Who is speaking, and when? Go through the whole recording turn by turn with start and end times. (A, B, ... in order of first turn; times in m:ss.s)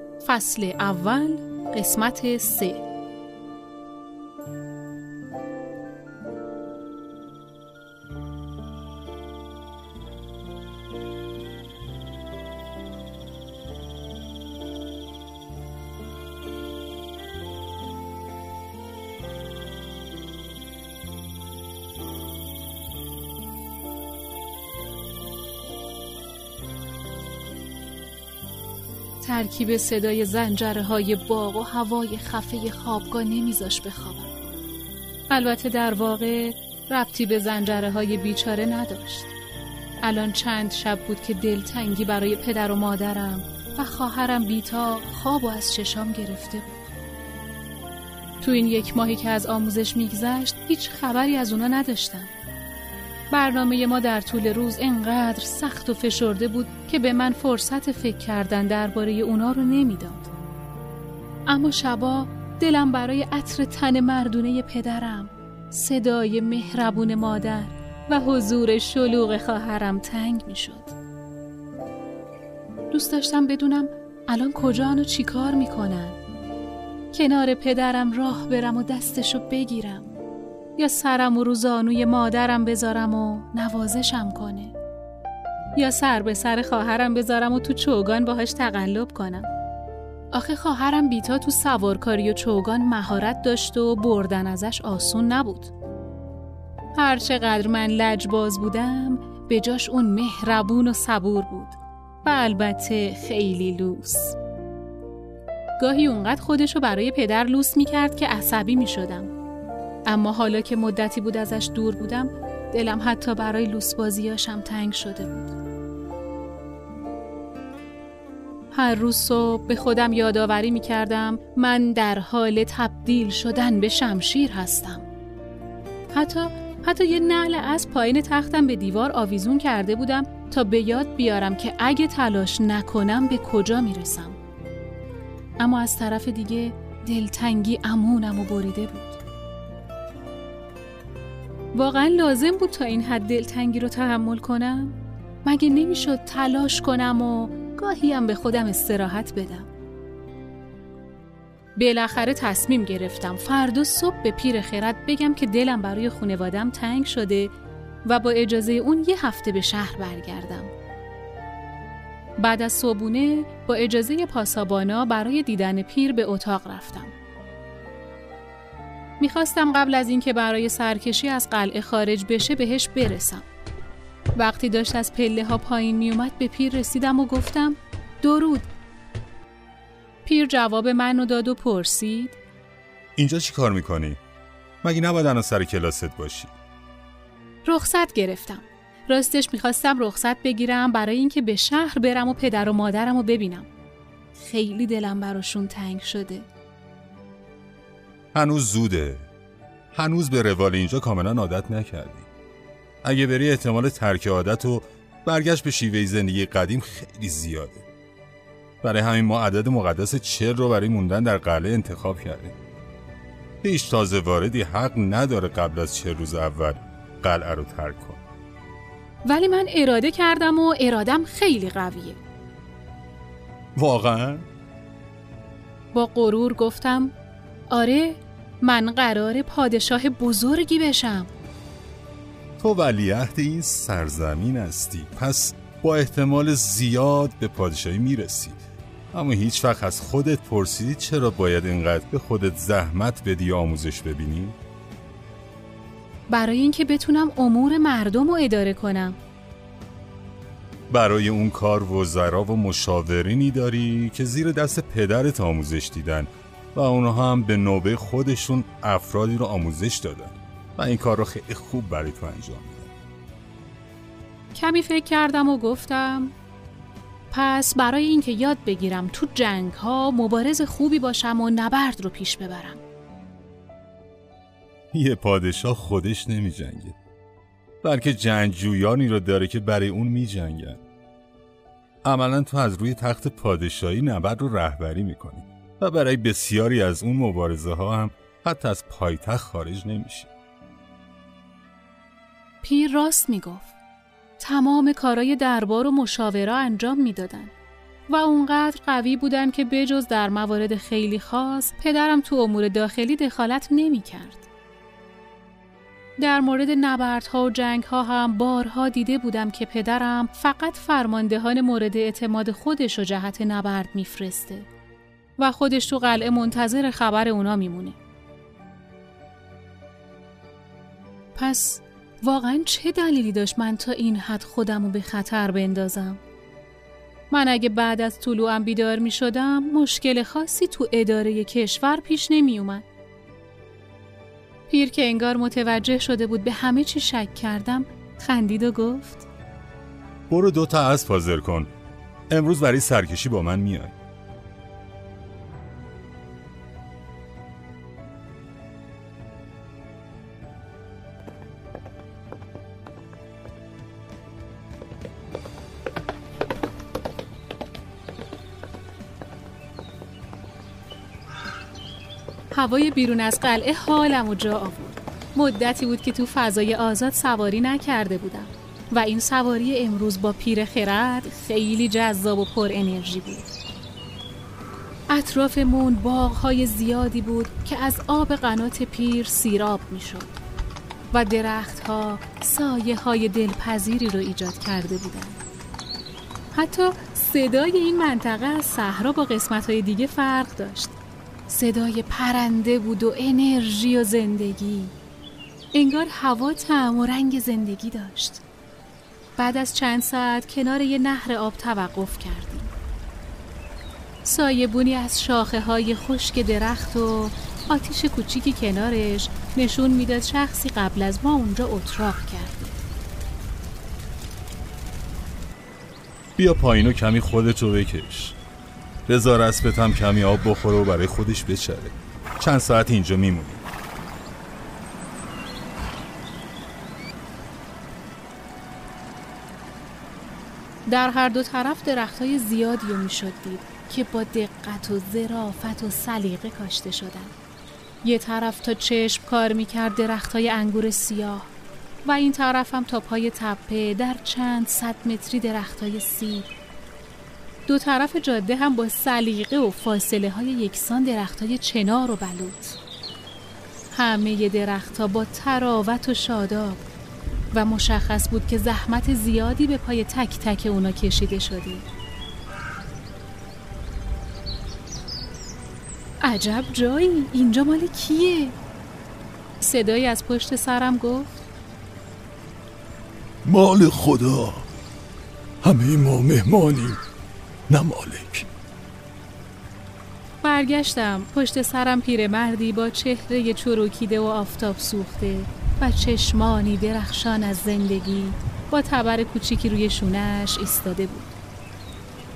0:00.2-0:02.8 A
0:29.2-0:34.3 A
0:35.3-0:39.3 A
0:40.0-0:46.8 A
0:48.4-0:52.3 A
0:53.3-1:00.3 A
1:01.5-1:10.9 A
1:12.9-1:16.2 A
1:17.1-1:20.1 A
1:20.8-1:24.8 A
1:25.8-1:29.5 A
1:30.3-1:35.7 A
1:36.9-1:44.4 A
1:45.8-1:49.3 A
1:50.1-1:55.6 A
1:58.7-2:05.0 A
2:06.1-2:14.4 A
2:15.6-2:19.2 A
2:21.7-2:29.7 A
2:31.8-2:37.5 A
2:38.0-2:40.7 A
2:42.4-2:47.1 A
2:49.2-2:53.4 A
2:54.4-2:58.6 A
3:00.2-3:02.4 A
3:03.2-3:04.2 B
3:04.8-3:06.5 B
3:07.6-3:13.7 A
3:14.3-3:16.5 A
3:18.3-3:19.3 B
3:19.9-3:22.3 B
3:23.0-3:27.8 B
3:28.8-3:32.5 B
3:33.6-3:38.2 B
3:39.2-3:42.2 A
3:43.8-3:44.5 B
3:45.9-3:47.1 A
3:47.7-3:51.3 A
3:52.6-3:58.6 B
3:59.1-4:04.6 B
4:06.3-4:09.2 A
4:10.9-4:22.9 B
4:24.6-4:26.3 A
4:27.3-4:32.8 A
4:34.9-4:37.0 B
4:37.8-4:40.8 B
4:42.0-4:50.3 B
4:52.6-4:53.8 A
4:54.4-4:57.5 A
4:58.1-5:04.5 A
5:06.2-5:14.7 A
5:15.4-5:18.0 A
5:21.4-5:26.2 A
5:27.3-5:32.8 A
5:34.7-5:39.2 A
5:40.3-5:41.7 B
5:42.3-5:43.9 B
6:02.5-6:13.5 A
6:15.1-6:20.4 A
6:21.1-6:25.4 A
6:26.5-6:31.0 A
6:31.5-6:34.9 A
6:35.7-6:38.4 A
6:39.4-6:42.7 A
6:44.2-6:52.8 A
6:56.4-6:58.4 B
6:59.1-7:03.7 B
7:10.9-7:17.3 A
7:18.0-7:21.5 A
7:22.0-7:26.5 A
7:27.7-7:32.8 A
7:33.9-7:36.9 A
7:37.5-7:41.9 A
7:46.2-7:48.6 A
7:49.6-7:51.4 A
7:53.4-7:54.7 C
7:55.6-7:57.0 C
7:57.7-7:58.5 C
8:00.4-8:11.3 A